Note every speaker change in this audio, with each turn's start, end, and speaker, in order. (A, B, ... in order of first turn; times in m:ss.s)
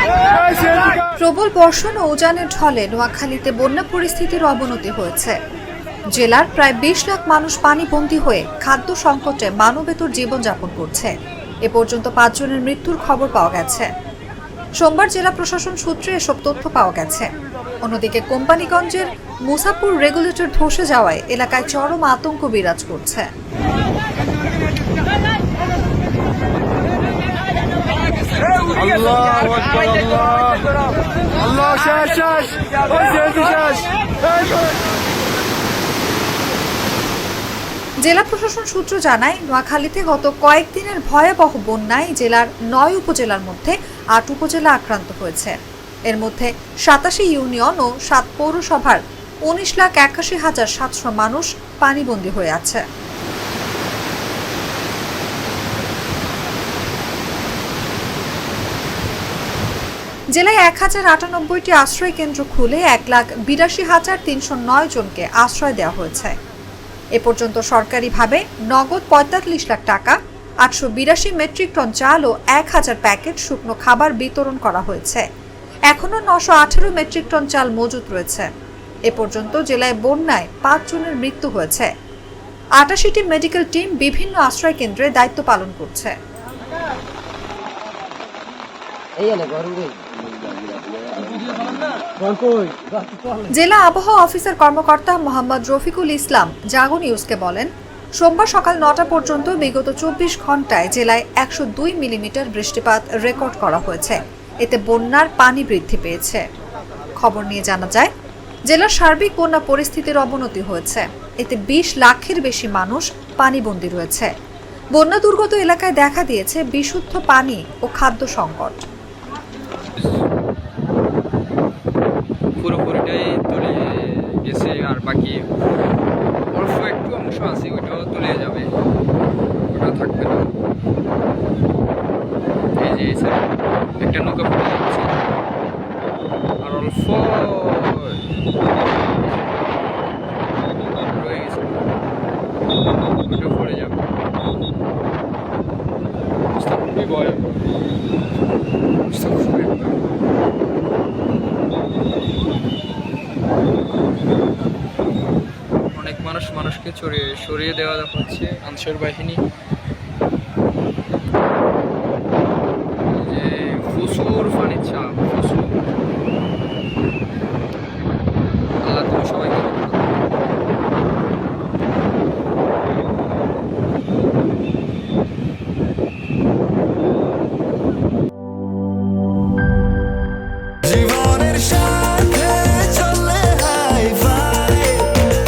0:00.4-0:05.4 A
0:06.1-0:11.1 A
0:11.6-0:13.9 A
0:14.8-0:17.3 A
0:17.8-0:23.3 A
0:28.7-0:30.5 B
0:31.6-0:33.3 C
0:38.0-0:45.6 A
0:46.1-0:52.8 A
1:00.3-1:06.3 A
1:07.2-1:15.2 A
1:15.9-1:18.5 A
1:19.1-1:21.9 A
1:22.8-1:26.1 A
1:29.3-1:29.9 C
1:32.4-1:32.7 C
1:33.5-1:46.4 A
1:47.2-1:48.1 A
1:48.7-1:54.3 A
1:55.0-1:58.8 A
2:02.5-2:05.5 B
2:06.5-2:08.7 B
2:09.7-2:10.5 B
2:12.8-2:13.4 B
2:14.0-2:15.2 B
2:16.6-2:18.2 B
2:20.9-2:21.9 B
2:23.2-2:24.1 B
2:26.5-2:27.6 B
2:29.1-2:30.0 B
2:35.9-2:39.4 B
2:43.1-2:45.8 B
2:48.8-2:50.2 B
3:00.9-3:05.0 C